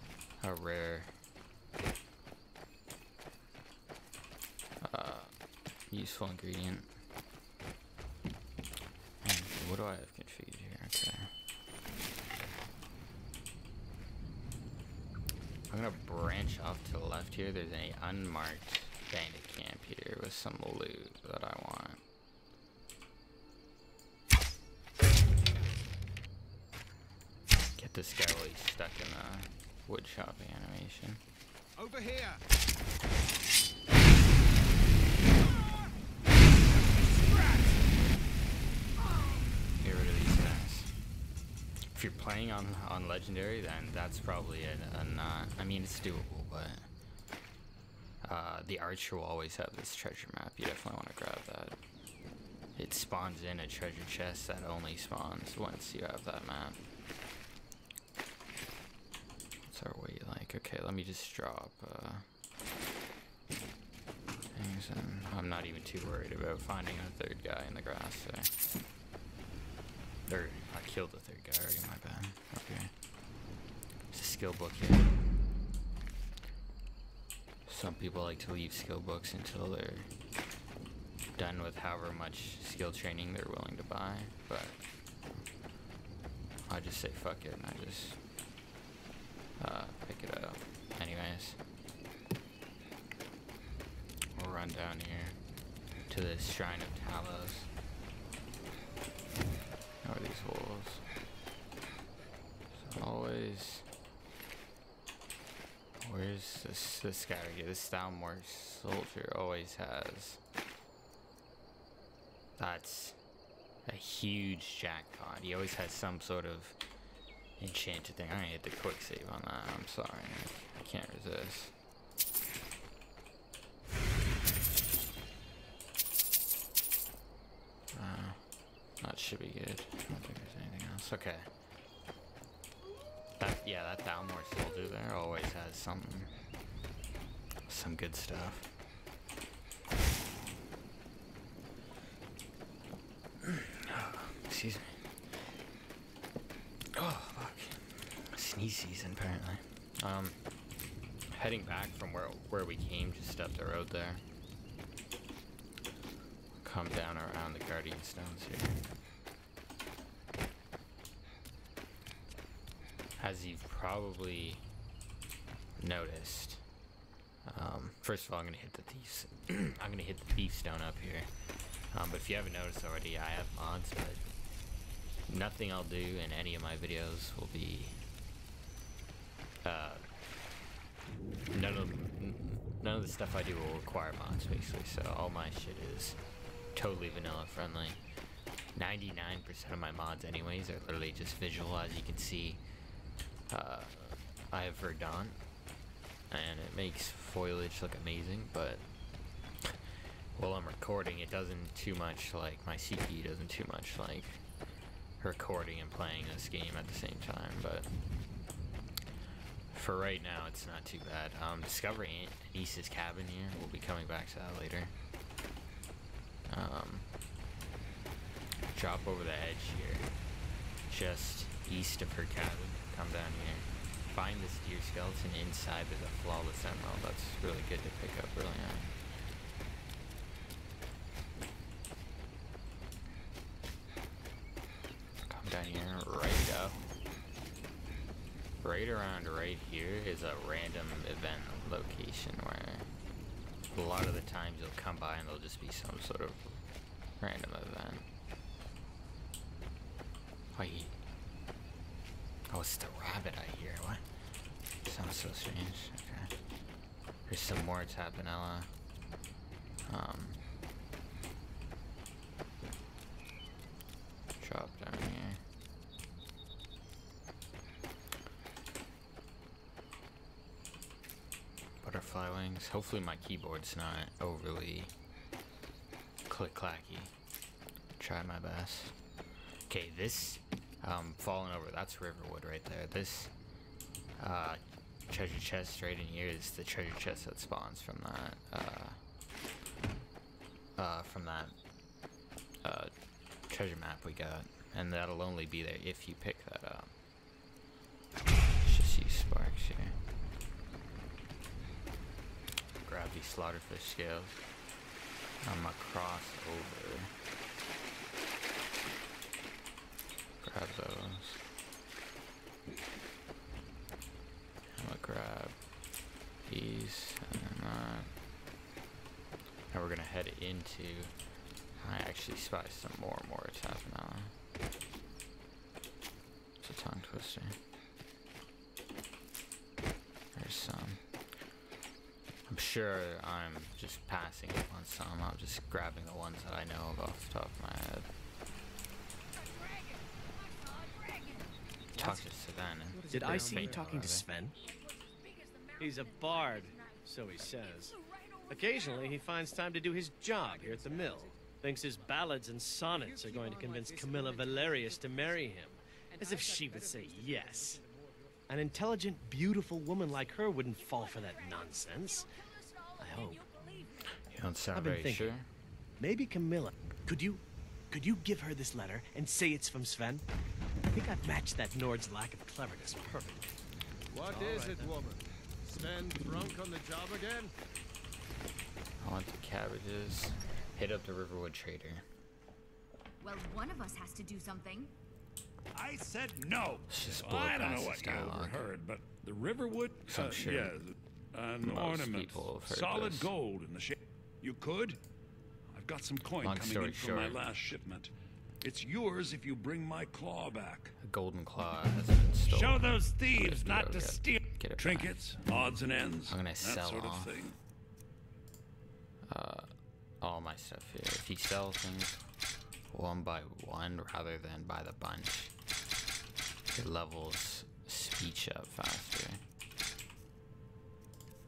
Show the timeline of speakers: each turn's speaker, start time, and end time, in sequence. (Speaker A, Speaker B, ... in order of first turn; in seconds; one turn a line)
Speaker A: 0.4-1.1
Speaker A: 4.8-5.3
Speaker A: 5.9-6.9
Speaker A: 9.2-11.3
Speaker A: 15.7-22.0
Speaker A: 27.8-31.2
Speaker B: 31.8-32.4
Speaker B: 36.8-37.8
Speaker A: 39.8-40.9
Speaker A: 41.9-46.9
Speaker A: 48.2-51.8
Speaker A: 52.8-56.8
Speaker A: 59.6-62.3
Speaker A: 64.5-68.5
Speaker A: 70.3-72.9
Speaker A: 74.1-75.1
Speaker A: 77.7-80.1
Speaker A: 81.3-84.8
Speaker A: 86.7-88.2
Speaker A: 89.6-91.6
Speaker A: 94.3-95.4
Speaker A: 96.1-97.7
Speaker A: 100.0-101.0
Speaker A: 102.7-103.8
Speaker A: 106.0-110.4
Speaker A: 112.6-113.2
Speaker A: 113.8-116.8
Speaker A: 117.6-121.7
Speaker A: 127.9-128.4
Speaker A: 129.0-131.5
Speaker A: 133.4-136.3
Speaker A: 137.7-138.7
Speaker A: 143.4-145.0
Speaker A: 146.9-150.4
Speaker A: 151.3-154.2
Speaker A: 156.6-158.8
Speaker A: 163.2-164.6
Speaker A: 165.8-166.6
Speaker A: 167.4-171.3
Speaker A: 171.9-174.2
Speaker A: 175.3-178.0
Speaker A: 179.6-180.0
Speaker A: 181.5-186.2
Speaker A: 186.7-188.0
Speaker A: 188.7-192.6
Speaker A: 193.5-195.4
Speaker A: 196.3-198.8
Speaker A: 200.3-204.4
Speaker A: 205.2-207.9
Speaker A: 209.7-214.9
Speaker A: 216.5-217.1
Speaker A: 218.7-220.1
Speaker A: 220.9-228.9
Speaker A: 235.3-236.8
Speaker A: 238.6-242.9
Speaker A: 243.7-246.6
Speaker A: 247.2-248.1
Speaker A: 250.5-250.9
Speaker A: 252.5-254.0
Speaker A: 254.8-256.3
Speaker A: 257.3-258.7
Speaker A: 259.9-260.4
Speaker A: 264.4-265.4
Speaker A: 271.8-274.9
Speaker A: 276.3-277.1
Speaker A: 278.0-278.9
Speaker A: 279.7-283.3
Speaker A: 284.2-289.0
Speaker A: 290.8-291.6
Speaker A: 292.6-292.9
Speaker A: 293.5-296.9
Speaker A: 298.6-300.0
Speaker A: 302.8-304.4
Speaker A: 305.4-307.1
Speaker A: 310.4-311.4
Speaker A: 314.8-315.6
Speaker A: 316.5-318.1
Speaker A: 319.7-321.1
Speaker A: 321.8-324.3
Speaker A: 326.6-327.6
Speaker A: 330.3-331.0
Speaker A: 332.5-338.1
Speaker C: 339.2-341.6
Speaker D: 341.9-342.2
Speaker A: 341.9-344.3
Speaker B: 342.9-343.9
Speaker D: 343.1-344.6
Speaker C: 344.5-349.3
Speaker D: 345.8-347.9
Speaker D: 348.5-357.8
Speaker B: 350.3-351.4
Speaker B: 352.9-355.5
Speaker B: 356.1-358.4
Speaker D: 358.5-362.3
Speaker C: 360.8-364.2
Speaker D: 363.0-363.4
Speaker A: 364.3-365.5
Speaker D: 364.7-365.4
Speaker D: 366.0-370.2
Speaker D: 370.9-373.5
Speaker B: 374.1-377.5
Speaker D: 374.2-375.0
Speaker A: 379.0-382.0
Speaker C: 383.2-384.9
Speaker E: 385.7-395.0
Speaker A: 386.9-388.7
Speaker A: 390.1-390.8
Speaker A: 391.6-393.3
Speaker E: 395.7-398.1
Speaker A: 396.4-397.4
Speaker E: 398.6-400.9
Speaker A: 401.0-405.1
Speaker E: 402.4-407.6
Speaker A: 406.3-407.5
Speaker A: 409.3-412.2
Speaker A: 412.9-415.5
Speaker A: 416.7-419.4